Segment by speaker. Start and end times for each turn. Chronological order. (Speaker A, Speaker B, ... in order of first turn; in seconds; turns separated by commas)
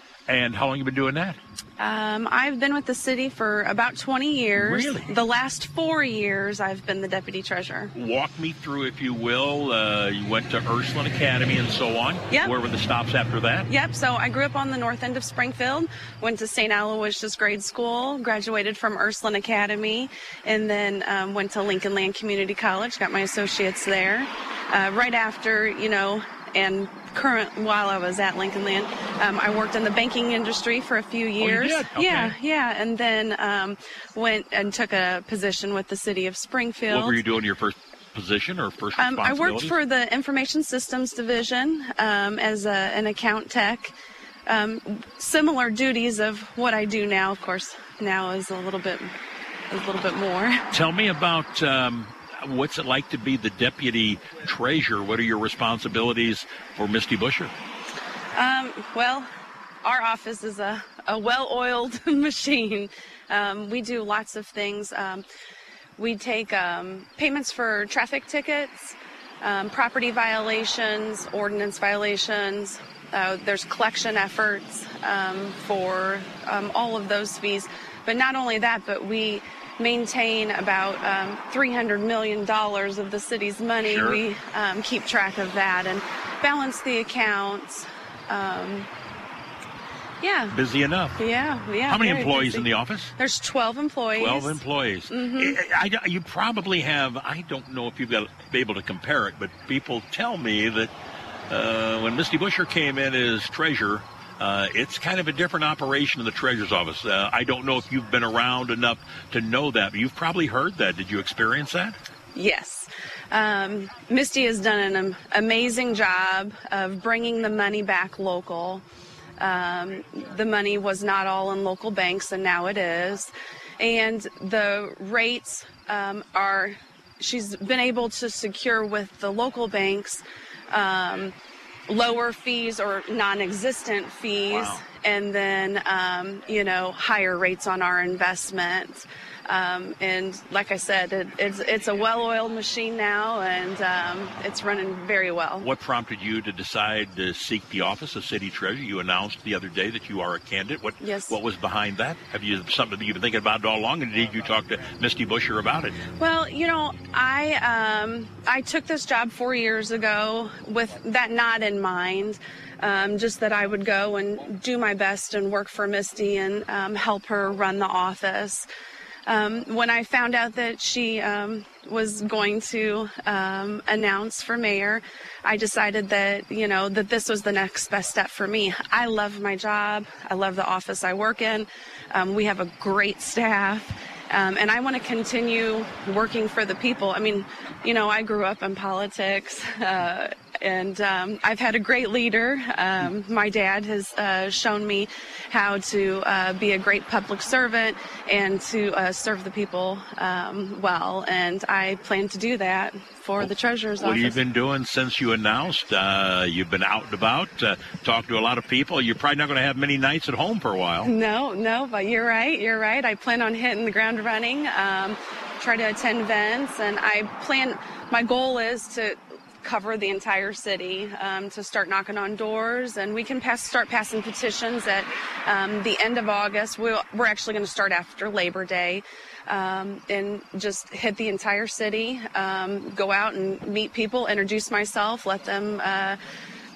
Speaker A: 0.3-1.4, Speaker B: 1.8-7.9, Speaker A: 4.5-5.1, Speaker A: 8.0-13.7, Speaker B: 13.7-37.2, Speaker A: 31.4-32.4, Speaker A: 36.9-39.8, Speaker B: 39.0-43.9, Speaker B: 44.5-49.1, Speaker B: 49.7-50.6, Speaker A: 50.7-57.5, Speaker B: 58.4-59.3, Speaker B: 59.8-65.2, Speaker B: 66.0-88.9, Speaker A: 83.8-84.2, Speaker B: 90.2-90.5, Speaker A: 90.5-91.2, Speaker B: 91.2-95.6, Speaker A: 91.9-93.1, Speaker A: 94.2-100.9, Speaker A: 101.5-112.0, Speaker B: 112.3-118.8, Speaker B: 119.4-131.3, Speaker B: 131.9-145.7, Speaker A: 134.6-134.8, Speaker A: 145.6-156.0, Speaker B: 151.0-151.4, Speaker B: 156.2-168.7, Speaker B: 169.3-204.4, Speaker A: 203.4-211.1, Speaker B: 211.0-236.2